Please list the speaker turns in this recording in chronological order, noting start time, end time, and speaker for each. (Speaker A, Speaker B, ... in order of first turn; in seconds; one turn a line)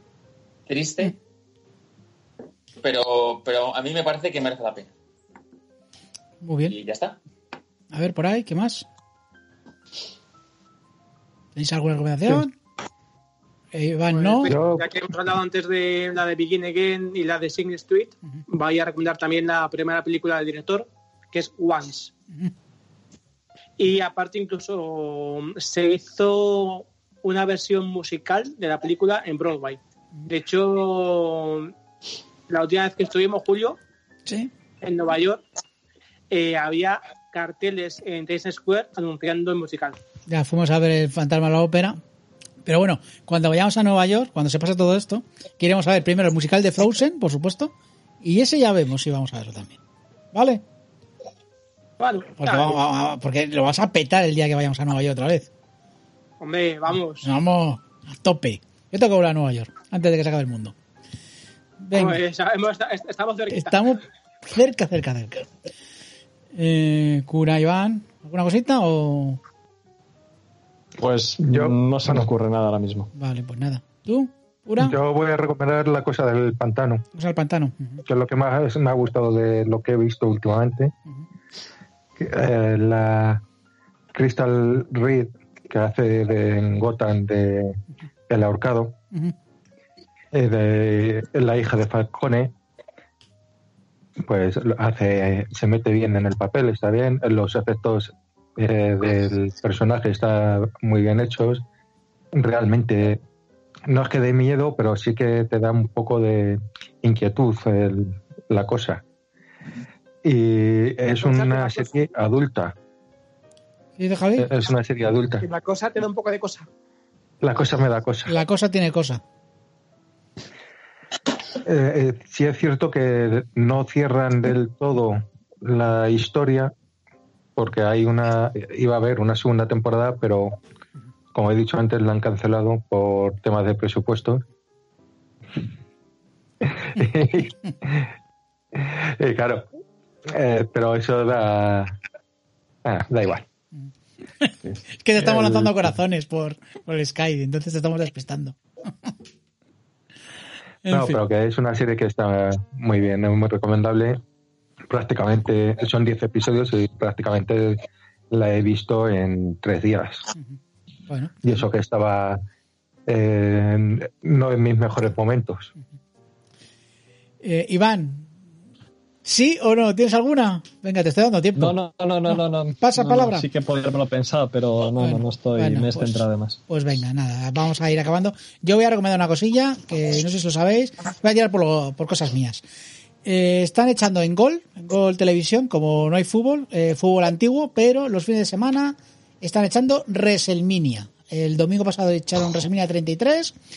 Speaker A: 0.7-1.1
Speaker A: 2.8-4.9
Speaker B: 6.4-6.7
Speaker A: 6.7-7.2
Speaker B: 7.9-8.8
Speaker B: 11.6-12.6
Speaker B: 13.7-14.5
Speaker C: 14.1-22.1
Speaker D: 14.5-15.2
Speaker C: 23.8-31.7
Speaker C: 32.5-33.8
Speaker B: 34.3-34.5
Speaker C: 34.8-35.4
Speaker C: 36.3-40.0
Speaker B: 40.3-42.0
Speaker B: 42.6-49.8
Speaker B: 50.3-50.6
Speaker C: 52.0-52.8
Speaker B: 52.4-55.5
Speaker C: 56.4-57.3
Speaker B: 57.2-60.7
Speaker B: 61.8-62.2
Speaker C: 61.9-63.8
Speaker B: 63.5-65.5
Speaker B: 66.5-69.4
Speaker E: 71.0-73.1
Speaker D: 71.4-72.3
Speaker B: 73.1-75.0
Speaker D: 74.8-77.0
Speaker B: 77.1-78.0
Speaker D: 78.0-80.9
Speaker D: 82.2-83.4
Speaker D: 84.1-87.8
Speaker D: 88.3-89.0
Speaker D: 90.3-92.5
Speaker D: 94.2-101.6
Speaker D: 102.3-103.2
Speaker D: 103.9-109.0
Speaker D: 110.2-112.7
Speaker C: 111.2-112.1
Speaker B: 114.0-114.5
Speaker D: 114.4-115.5
Speaker C: 115.4-116.7
Speaker D: 117.4-118.3
Speaker B: 118.3-119.2
Speaker D: 121.6-126.7
Speaker D: 127.5-130.6
Speaker D: 131.3-134.4
Speaker D: 136.6-138.1
Speaker D: 138.8-139.7
Speaker D: 140.3-141.9
Speaker D: 142.8-143.4
Speaker B: 144.4-148.6
Speaker E: 144.6-145.9
Speaker B: 150.8-151.2
Speaker D: 150.9-154.2
Speaker D: 154.9-160.3
Speaker B: 161.1-161.4
Speaker D: 161.4-162.4
Speaker D: 163.1-165.7
Speaker B: 167.4-168.3
Speaker B: 169.2-171.8
Speaker E: 171.5-176.6
Speaker B: 172.3-173.5
Speaker B: 175.0-182.6
Speaker B: 183.2-193.5